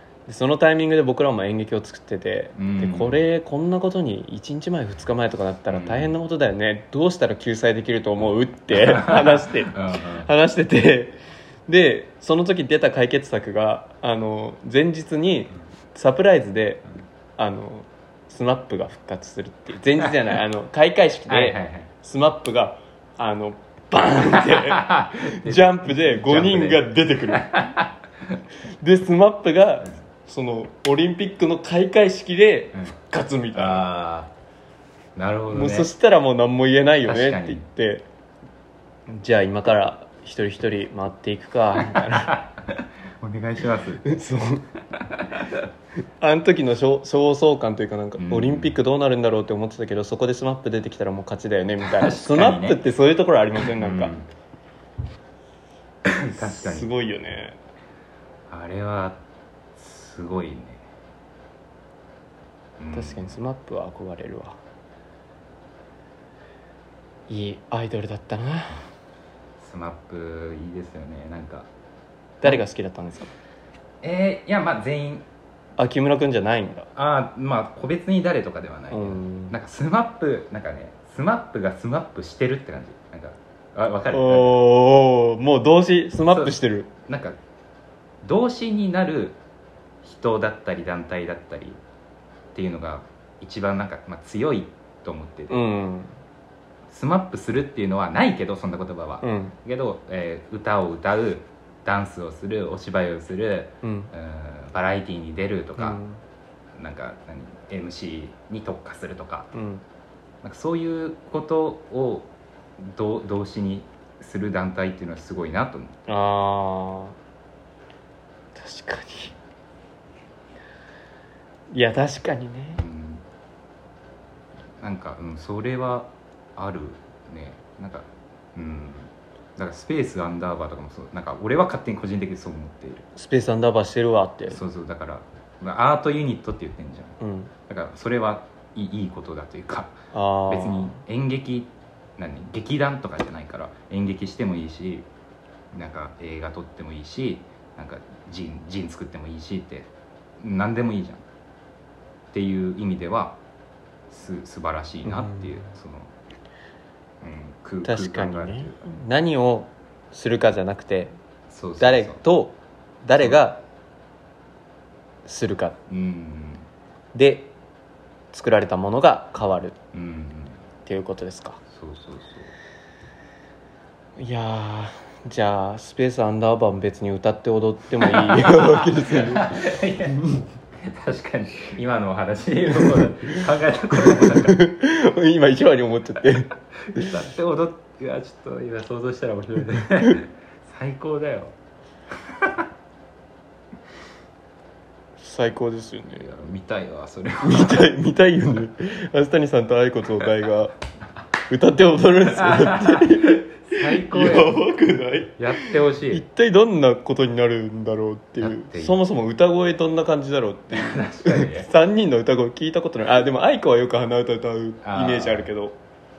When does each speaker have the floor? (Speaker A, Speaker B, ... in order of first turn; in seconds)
Speaker A: 0.3-16.8, 17.4-27.6, 28.7-33.9, 35.5-38.0, 39.1-42.4, 44.0-44.7, 46.2-54.1, 56.4-57.6, 62.9-64.6, 67.3-68.8, 72.4-73.3, 75.8-76.9, 78.9-79.5, 84.1-86.9, 95.5-96.2, 99.2-99.5, 103.8-104.1, 105.8-106.2, 109.5-109.8, 116.1-117.2, 118.5-119.3, 121.7-122.8, 133.1-134.6, 137.2-137.5, 140.1-141.0, 155.0-155.6, 157.8-161.1, 161.8-163.6, 165.2-165.8, 167.1-167.5, 168.3-169.8, 170.8-171.6, 174.2-180.4, 184.0-187.1, 195.2-196.3, 197.4-200.7, 201.5-215.8
Speaker B: 2.5-3.2, 5.7-6.1, 8.7-10.3, 21.3-21.9, 24.3-28.4, 33.5-34.3, 35.1-35.9, 37.0-37.6, 41.8-44.2, 44.9-45.6, 48.2-48.8, 51.8-52.8, 53.6-54.3, 56.0-56.9, 58.5-59.2, 59.8-60.8, 62.8-63.4, 69.6-71.7, 74.0-75.2, 76.9-84.6, 86.3-87.4, 88.2-89.4, 90.0-91.8, 92.5-95.6, 96.9-106.0, 106.7-109.5, 110.4-116.0, 122.8-123.2, 124.8-133.1, 134.5-140.0, 140.5-145.1, 145.7-151.2, 152.3-153.4, 154.1-156.1, 157.2-159.0, 161.5-162.2, 165.9-166.7, 169.9-170.6, 171.7-172.5, 178.0-184.6, 186.8-191.5, 192.1-192.7, 196.2-197.9, 202.3-204.6, 205.4-206.2, 208.4-209.0, 210.7-211.7, 214.8-215.5